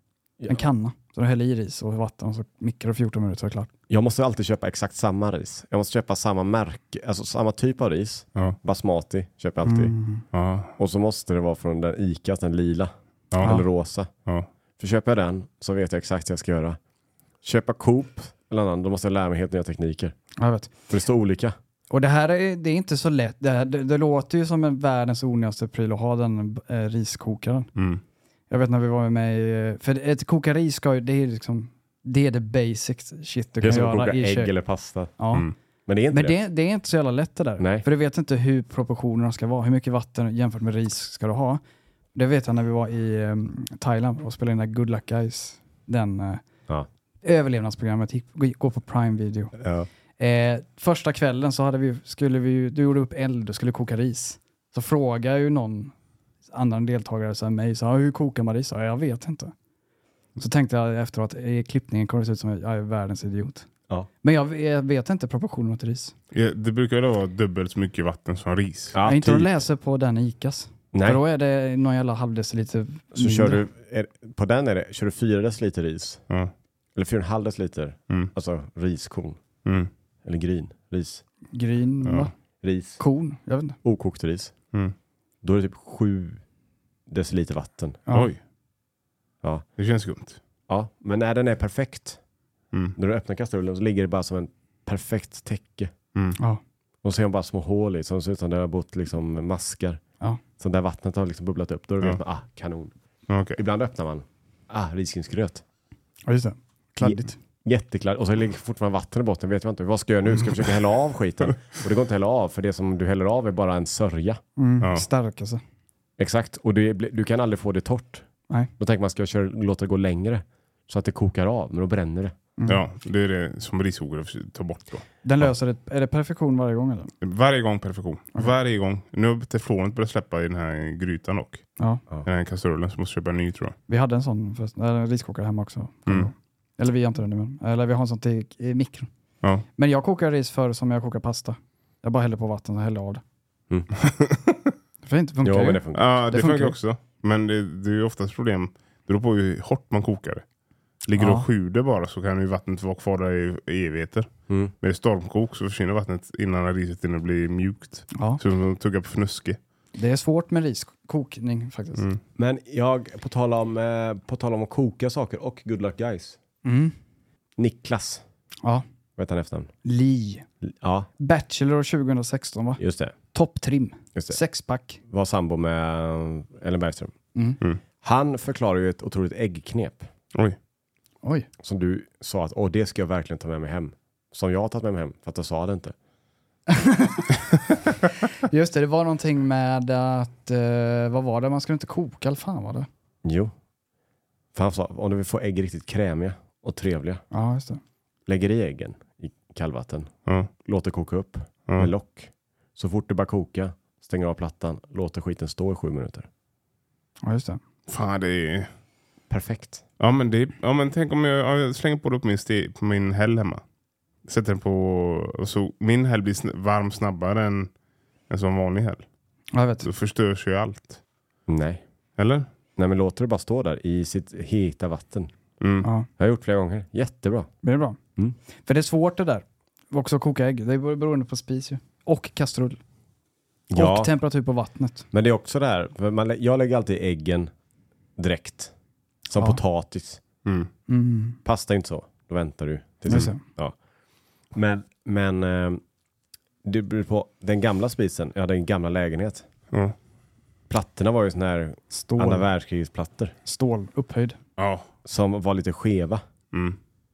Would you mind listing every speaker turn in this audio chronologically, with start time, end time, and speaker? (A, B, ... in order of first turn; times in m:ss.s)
0:00.4-0:00.7 A
0:00.5-0:03.7 B
0:03.9-0:09.9 A
0:09.6-0:10.2 B
0:10.3-0:10.7 C
0:10.8-0:14.1 A
0:13.3-0:13.6 C
0:14.8-0:16.8 A
0:17.4-0:20.2 A
0:20.4-0:20.7 B
0:20.9-0:21.6 A
0:21.9-0:27.7 B
0:27.8-0:28.0 C
0:28.5-0:34.5 B
0:33.6-0:35.1 A
0:35.2-0:35.5 B
0:35.9-0:36.4 A
0:36.1-0:41.6 B
0:37.6-0:37.9 A
0:42.2-0:46.4 B
0:47.2-0:49.5 B
0:49.6-0:49.9 A
0:50.2-0:55.9 B
0:56.5-0:59.5 B
1:00.4-1:03.7 B
1:04.2-1:06.1 B
1:06.3-1:09.0 C
1:08.9-1:09.5 A
1:09.0-1:13.6 B
1:10.9-1:11.2 A
1:13.1-1:16.2 A
1:17.0-1:19.4 A
1:19.6-1:19.9 C
1:20.2-1:21.2 A
1:21.5-1:22.3 B
1:22.0-1:22.3 C
1:22.6-1:23.0 A
1:23.0-1:23.8 B
1:23.8-1:24.5 A
1:25.4-1:26.4 A
1:27.1-1:28.0 A
1:28.1-1:28.4 C
1:29.8-1:30.4 C
1:30.7-1:32.2 A
1:33.0-1:35.9 A
1:37.0-1:40.0 A
1:40.6-1:42.9 A
1:43.3-1:43.6 C
1:43.6-1:45.6 A
1:46.3-1:47.4 B
1:47.0-1:54.4 A
1:54.6-1:55.6 B
1:56.2-2:02.3 A
2:02.7-2:05.5 C
2:05.2-2:07.1 B
2:07.2-2:11.7 C
2:12.2-2:13.8 C
2:13.9-2:19.1 B
2:19.8-2:23.2 B
2:24.1-2:24.7 C
2:25.0-2:26.8 B
2:25.4-2:26.2 A
2:25.9-2:30.4 C
2:31.0-2:39.6 C
2:31.2-2:31.5 B
2:38.1-2:38.4 B
2:40.0-2:42.0 B
2:42.4-2:46.4 A
2:46.6-2:47.0 B
2:47.6-2:48.2 A
2:49.2-2:49.7 A
2:49.8-2:50.4 B
2:50.6-2:51.1 A
2:51.2-2:52.8 B
2:52.8-2:53.2 A
2:53.3-2:55.0 B
2:55.1-2:57.1 A
2:58.0-3:00.1 A
3:01.6-3:06.0 A
3:06.7-3:07.3 B
3:08.5-3:12.9 B
3:13.2-3:13.5 A
3:14.5-3:17.2 A
3:17.3-3:17.8 B
3:18.3-3:20.1 A
3:20.6-3:26.3 A
3:27.2-3:27.6 B
3:27.9-3:28.7 C
3:29.3-3:29.8 A
3:30.0-3:33.6 C
3:34.2-3:37.7 C
3:38.3-3:39.1 C
3:39.5-3:39.9 B
3:39.8-3:41.0 C
3:41.5-3:41.8 A
3:42.2-3:42.5 C
3:42.8-3:45.3 A
3:45.6-3:45.9 C
3:45.8-3:46.1 B
3:46.2-3:47.5 A
3:47.6-3:48.0 B
3:48.7-3:52.8 B
3:53.7-3:54.1 A
3:53.8-3:55.1 B
3:55.1-3:57.5 A
3:58.2-3:58.7 A
3:59.3-4:00.2 A
4:00.4-4:00.7 C
4:00.9-4:01.4 B
4:01.4-4:03.8 A
4:03.1-4:03.4 B
4:04.5-4:05.8 A
4:06.6-4:09.4 A
4:10.7-4:13.4 A
4:11.9-4:12.5 B
4:13.4-4:14.4 B
4:14.6-4:14.9 C
4:15.0-4:16.2 A
4:16.5-4:16.8 C